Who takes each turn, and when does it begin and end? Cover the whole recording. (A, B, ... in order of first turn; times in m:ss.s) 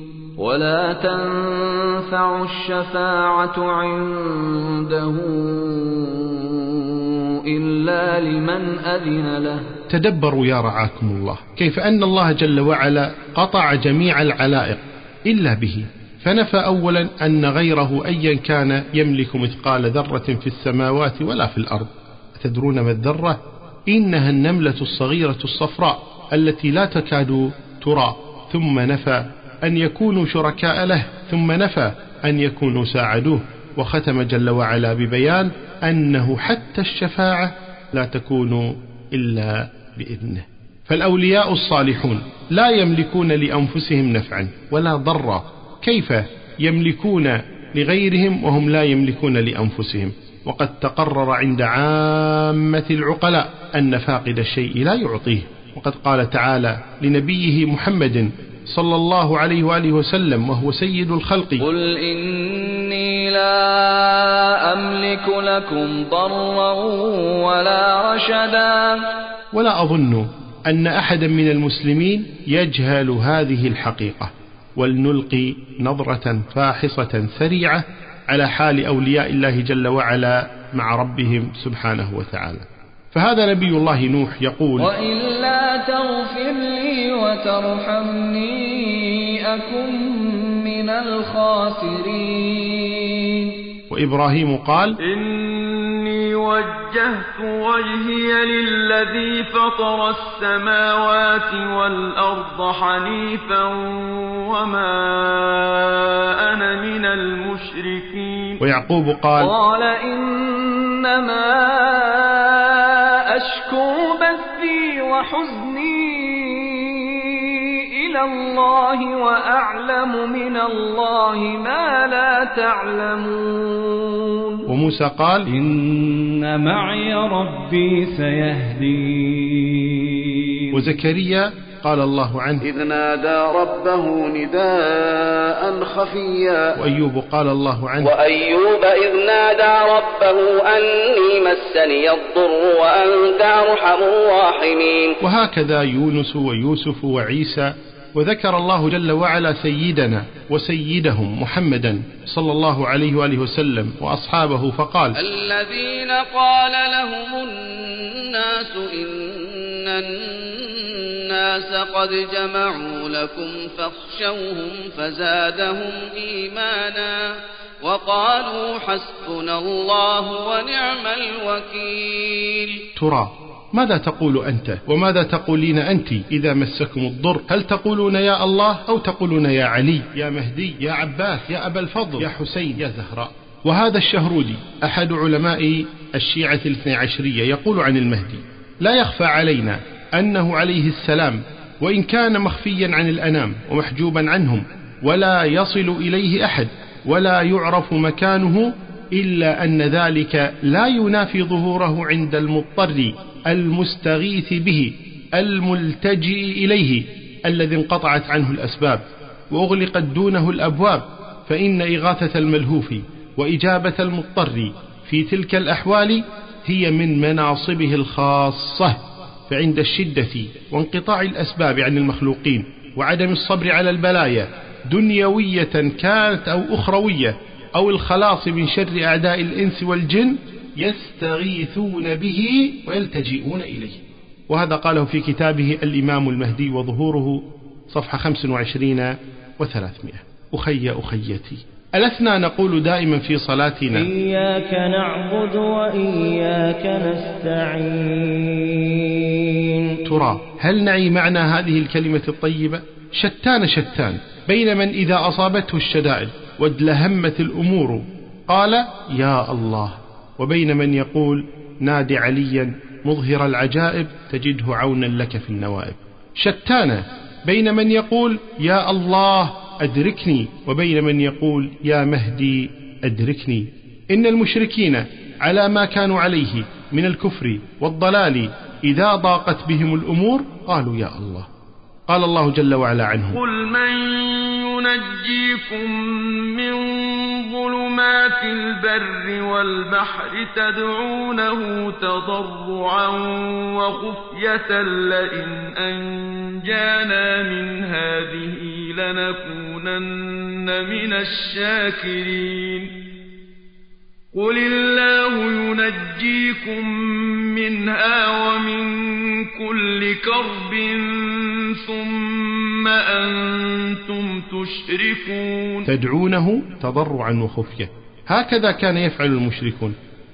0:00.4-0:09.7 A
0:09.9-1:01.6 B
1:01.6-1:09.0 A
1:09.5-1:24.9 B
1:24.8-1:33.2 A
1:33.9-1:35.0 B
1:35.0-1:48.6 C
1:48.6-1:49.5 B
1:49.4-2:04.6 A
2:04.7-2:05.5 B
2:05.5-2:09.9 A
2:10.7-2:12.6 B
2:12.6-2:16.8 D
2:16.8-2:18.1 B
2:18.0-2:25.1 E
2:25.2-2:35.2 B
2:35.2-2:47.3 E
2:47.8-2:52.8 E
2:53.0-4:04.1 B
4:03.9-4:09.7 F
4:10.0-4:41.5 B
4:42.1-4:43.4 B
4:43.3-5:02.9 C
5:04.3-5:15.9 C
5:15.9-5:20.0 B